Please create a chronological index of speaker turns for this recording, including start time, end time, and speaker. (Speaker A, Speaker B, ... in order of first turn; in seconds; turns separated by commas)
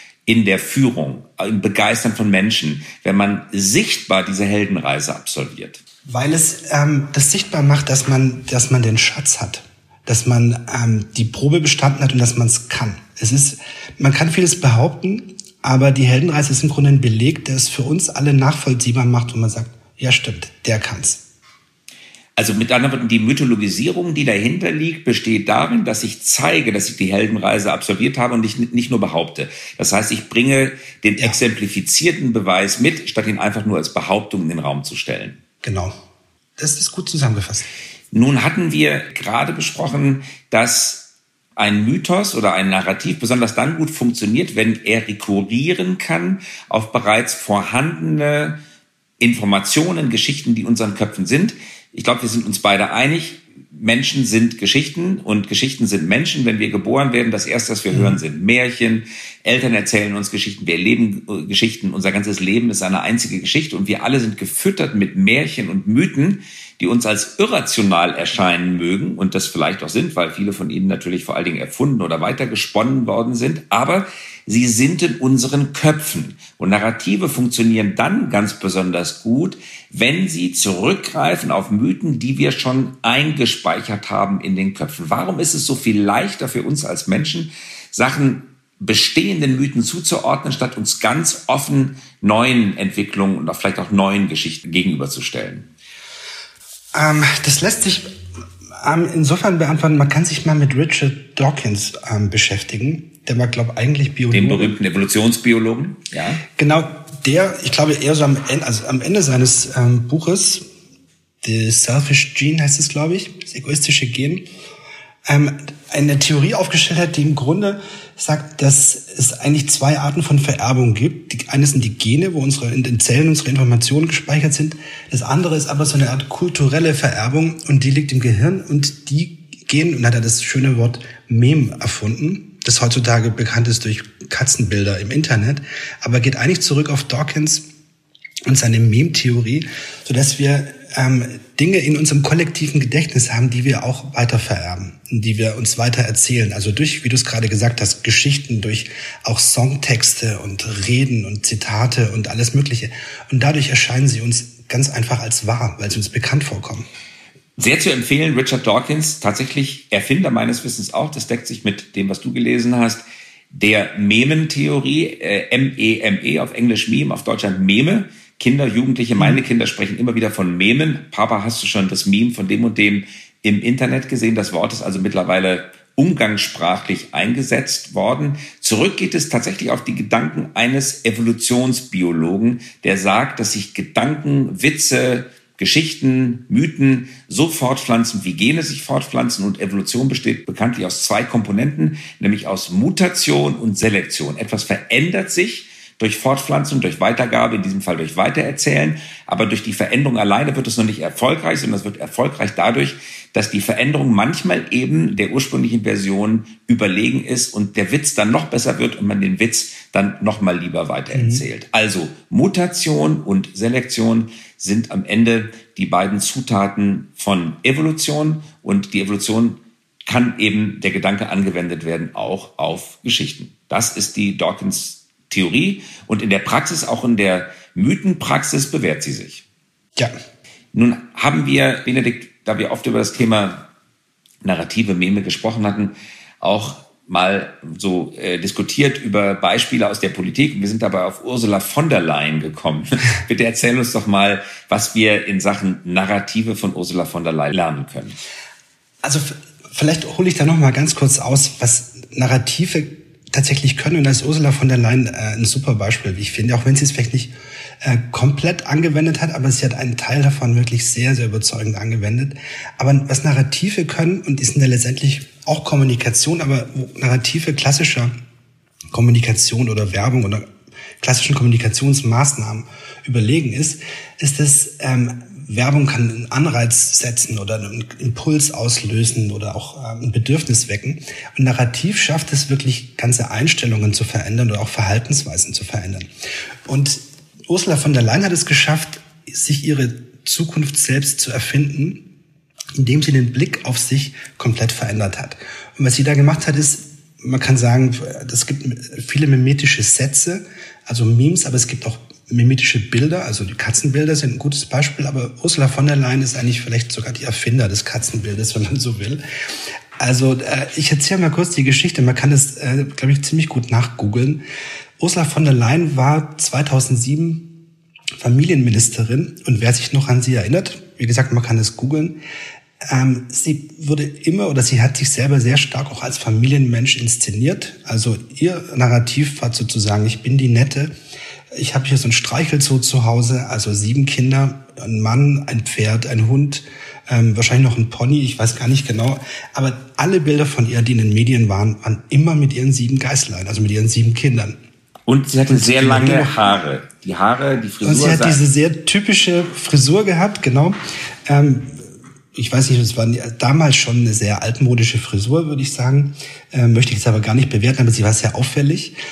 Speaker A: 0.3-5.8, Speaker B: 6.0-21.2, Speaker A: 22.4-35.4, Speaker B: 35.6-35.9, Speaker B: 36.6-37.7, Speaker A: 38.1-48.6, Speaker A: 49.2-95.7, Speaker B: 57.9-58.2, Speaker B: 96.9-98.1, Speaker B: 98.8-104.8, Speaker A: 104.3-106.4, Speaker B: 106.5-110.6, Speaker B: 111.4-114.4, Speaker B: 115.2-137.7, Speaker B: 138.5-156.8, Speaker A: 157.6-229.4, Speaker B: 211.1-211.4, Speaker A: 230.7-233.7, Speaker A: 234.4-248.2, Speaker B: 249.0-268.1, Speaker B: 268.9-270.5, Speaker B: 271.0-286.1, Speaker B: 286.6-292.0, Speaker B: 292.8-309.2, Speaker B: 310.0-314.4, Speaker B: 315.0-317.6, Speaker B: 318.2-322.2, Speaker B: 322.8-330.9, Speaker B: 331.5-344.6, Speaker A: 345.1-348.4, Speaker B: 345.5-346.3, Speaker B: 347.8-358.9